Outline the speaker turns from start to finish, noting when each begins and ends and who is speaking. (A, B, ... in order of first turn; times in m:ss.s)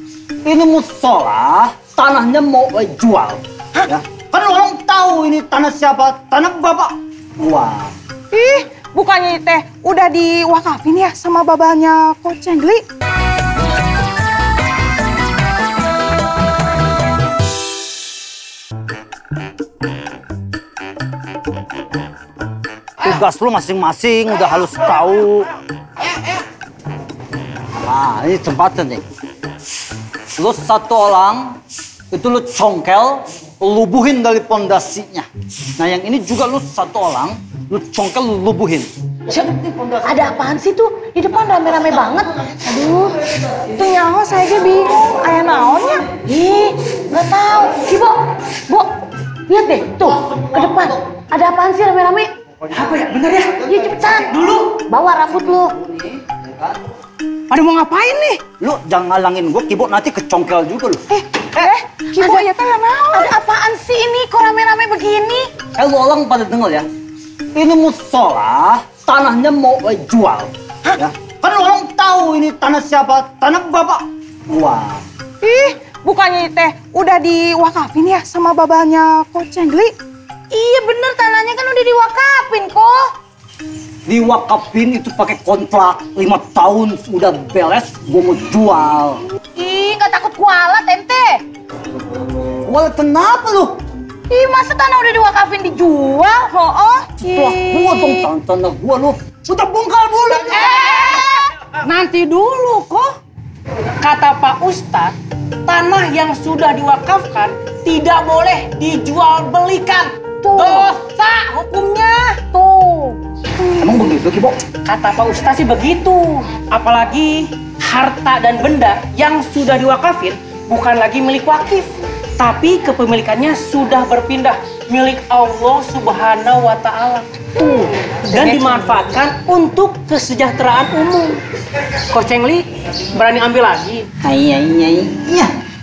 0:00.4-0:07.9 A
0:08.3-0:12.8 B
0:23.0-0:25.5 A
0:27.8-0:29.0 A
0:30.4-0:31.6 A
0:32.1-0:35.3 A
0:35.8-0:38.9 A
0:39.3-0:43.1 C
0:43.7-0:46.1 B
0:46.2-0:48.9 C
0:49.5-0:52.3 C
0:52.7-0:53.7 D
0:53.6-0:55.7 C
0:54.3-0:54.7 D
0:55.9-0:56.8 A
0:57.5-0:58.4 D
0:58.6-1:01.0 A
1:01.1-1:03.4 B
1:01.6-1:02.5 C
1:03.1-1:05.5 C
1:05.8-1:06.9 A
1:07.6-1:15.0 A
1:15.4-1:20.0 B
1:20.5-1:23.1 C
1:24.1-1:29.2 A
1:29.6-1:31.4 C
1:32.5-1:33.8 A
1:34.3-1:36.7 C
1:36.7-1:37.1 B
1:37.2-1:41.2 A
1:37.3-1:38.3 C
1:40.4-1:41.5 C
1:41.6-1:43.1 D
1:44.0-1:52.4 D
1:50.4-1:51.0 C
1:52.4-1:53.2 C
1:53.6-1:54.6 A
1:54.8-2:11.4 D
2:08.4-2:08.8 C
2:11.9-2:14.1 D
2:14.2-2:15.5 A